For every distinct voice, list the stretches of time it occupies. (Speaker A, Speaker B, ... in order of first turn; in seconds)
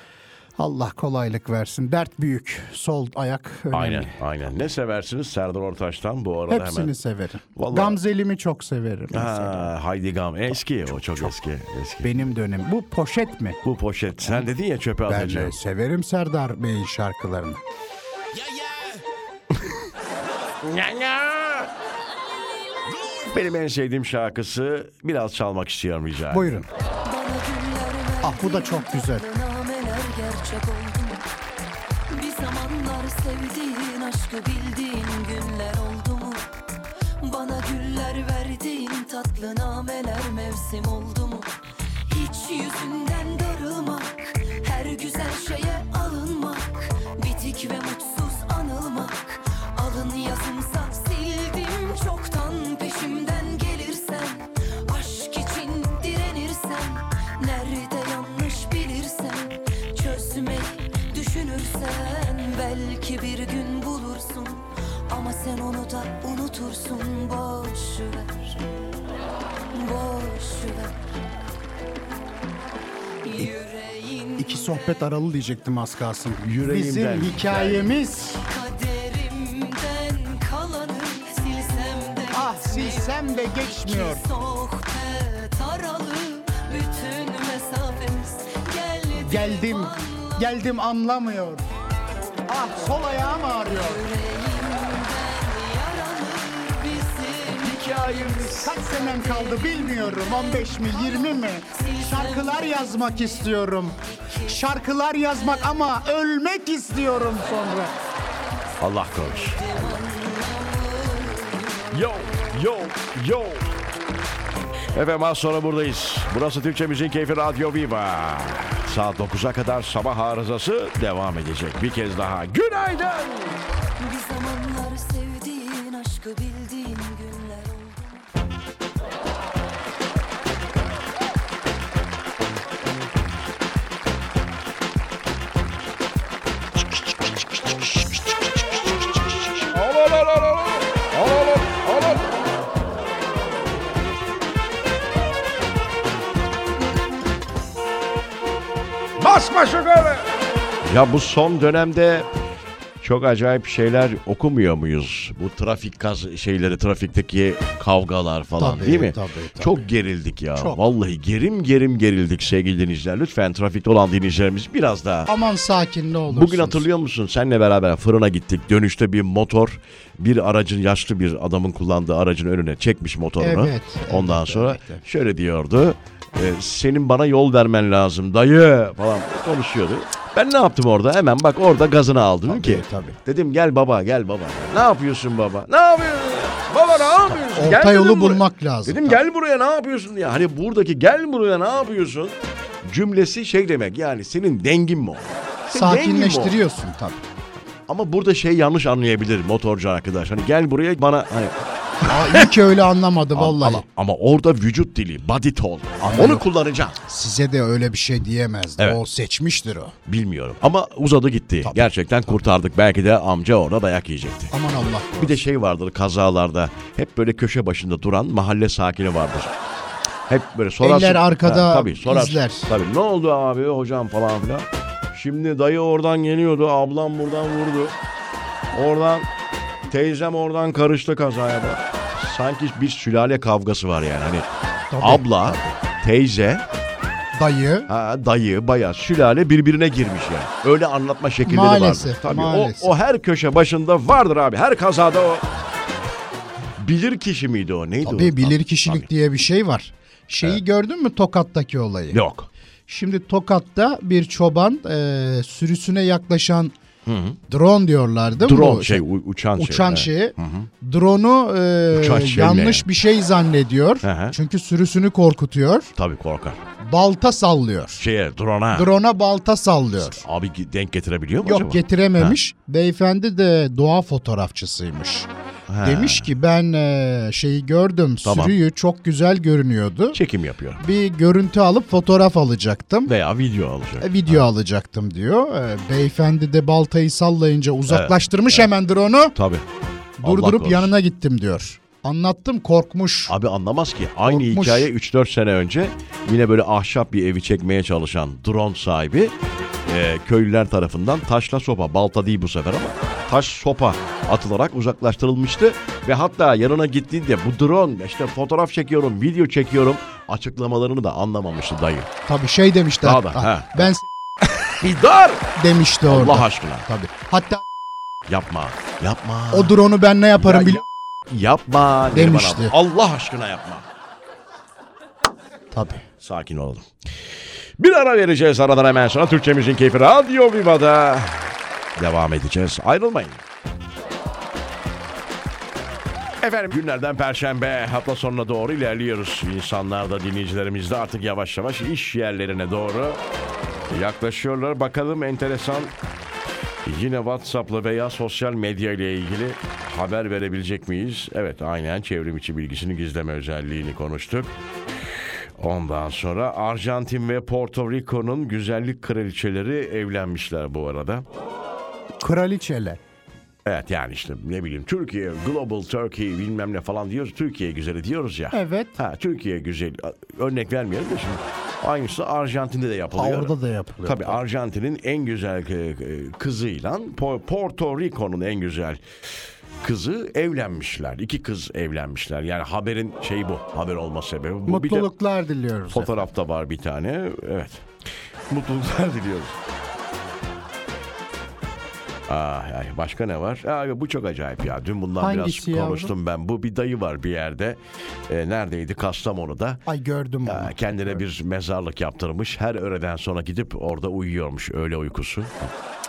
Speaker A: 0.6-4.1, 6.5-9.7, 10.9-11.3, 12.0-13.6, 15.1-17.6, 26.3-26.7, 28.2-29.2, 74.4-78.4, 82.3-84.2, 89.2-91.6, 92.5-94.0, 98.4-107.9, 158.6-159.8, 165.3-166.8, 173.4-175.0, 182.5-183.2, 187.4-189.2, 195.7-197.2, 202.1-203.8, 206.0-206.4, 207.1-209.9, 211.6-211.9, 214.5-215.4, 220.8-222.7, 234.9-235.8, 237.3-237.9, 241.4-242.9, 248.0-252.2, 252.9-256.7, 257.5-259.0, 259.6-265.9, 266.8-268.0, 268.7-270.2, 271.4-275.3, 275.8-280.2, 280.8-283.1, 284.0-289.4, 290.2-293.3, 294.2-294.9, 312.3-314.1, 315.6-317.6, 319.5-320.8, 322.1-322.7, 325.7-326.0, 362.2-363.0, 368.5-369.0, 373.1-374.4, 384.6-386.2, 395.2-396.1, 399.9-401.2
Speaker B: 3.7-6.9, 7.5-8.0, 9.1-12.3, 13.6-15.6, 18.4-19.0, 20.6-21.7, 23.1-26.5, 76.4-77.9, 97.6-98.3, 108.8-109.9, 111.9-113.7, 114.9-123.6, 139.6-142.3, 149.2-150.3, 150.8-152.3, 153.0-165.3, 166.3-196.6, 197.9-202.5, 203.3-207.0, 210.1-214.5, 215.2-219.5, 220.3-227.9, 228.7-229.3, 229.9-234.4, 235.0-236.6, 237.9-245.4, 246.8-249.1, 252.1-252.5, 257.1-257.4, 258.4-260.7, 261.9-262.9, 264.0-264.4, 266.0-266.6, 268.0-268.9, 270.0-272.4, 275.7-276.3, 278.2-278.6, 280.1-280.8, 283.1-284.4, 287.9-288.7, 289.3-289.6, 290.2-290.9, 293.3-299.3, 299.9-312.1, 313.0-313.9, 314.4-315.5, 316.1-316.9, 318.3-319.8, 320.4-323.8, 326.2-326.9, 327.8-333.4, 336.4-343.2, 343.9-345.9, 346.8-354.5, 355.6-361.2, 363.6-373.5, 374.0-379.0, 379.8-385.1, 385.9-387.9, 388.5-389.6, 392.3-399.8, 400.4-405.7
Speaker C: 27.0-31.2, 32.1-36.5, 37.2-41.5, 42.1-68.5, 69.7-70.9, 73.2-75.0, 78.4-90.5, 93.7-103.5, 104.1-104.6, 105.3-105.7, 109.2-111.9, 124.0-128.2